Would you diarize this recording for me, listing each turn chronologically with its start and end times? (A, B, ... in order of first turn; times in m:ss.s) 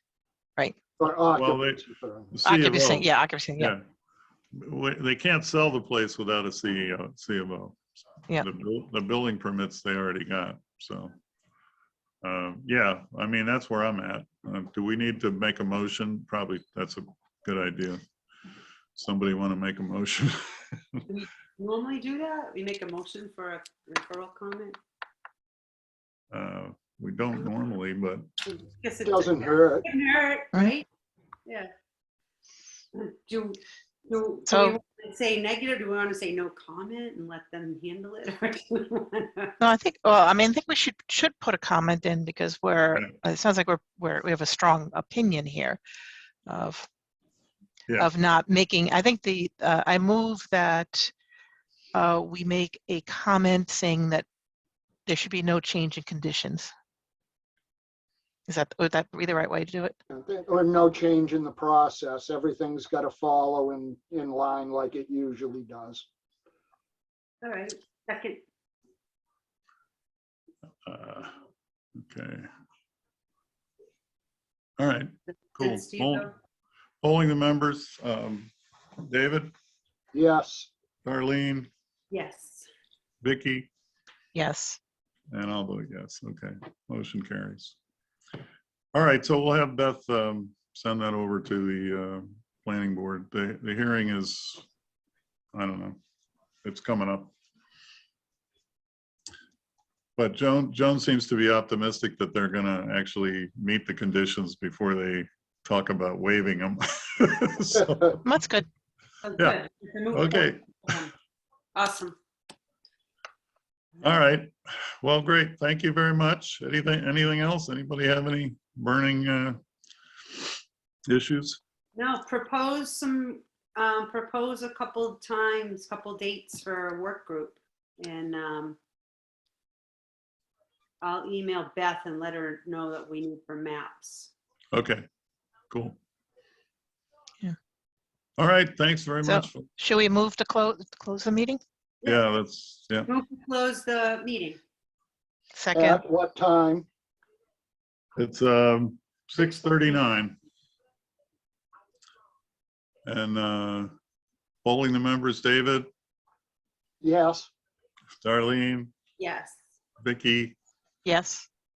0:01.0-0:02.3 A
0:01.4-0:01.8 B
0:02.3-0:03.1 B
0:02.4-0:03.7 C
0:04.5-0:07.8 B
0:08.4-0:11.1 B
0:12.2-0:18.0 B
0:19.0-0:21.0 B
0:21.1-0:24.8 D
0:26.3-0:28.3 B
0:28.4-0:30.6 D
0:29.0-0:29.8 A
0:30.5-0:30.8 C
0:32.9-0:39.5 D
0:34.5-0:34.8 C
0:39.6-0:45.8 C
0:46.4-0:46.9 C
0:48.0-0:51.1 C
0:51.9-0:54.2 C
0:55.0-0:56.7 C
0:58.5-1:00.0 C
1:00.1-1:06.0 A
1:07.4-1:08.4 D
1:10.8-1:11.3 B
1:12.0-1:12.5 B
1:14.8-1:16.3 B
1:15.6-1:16.3 D
1:17.0-1:19.5 B
1:20.1-1:20.7 A
1:21.0-1:21.7 B
1:22.1-1:22.7 D
1:23.2-1:23.7 B
1:24.3-1:24.8 C
1:25.3-1:27.8 B
1:28.9-1:34.6 B
1:35.5-1:36.0 B
1:36.6-1:37.3 B
1:40.2-1:48.2 B
1:48.2-1:48.7 C
1:49.2-1:51.1 D
1:50.1-1:50.8 B
1:51.7-1:52.2 D
1:54.0-1:59.6 B
2:01.1-2:01.6 B
2:01.9-2:08.8 D
2:11.0-2:14.3 D
2:14.7-2:15.1 B
2:15.7-2:16.0 B
2:18.4-2:19.7 B
2:19.2-2:21.6 C
2:22.0-2:23.1 B
2:23.1-2:24.6 D
2:25.5-2:26.0 C
2:25.7-2:26.8 A
2:28.2-2:30.4 B
2:33.0-2:33.9 B
2:34.6-2:35.9 B
2:37.0-2:37.5 A
2:38.2-2:38.9 B
2:39.2-2:39.6 D
2:40.0-2:40.6 B
2:41.0-2:41.5 C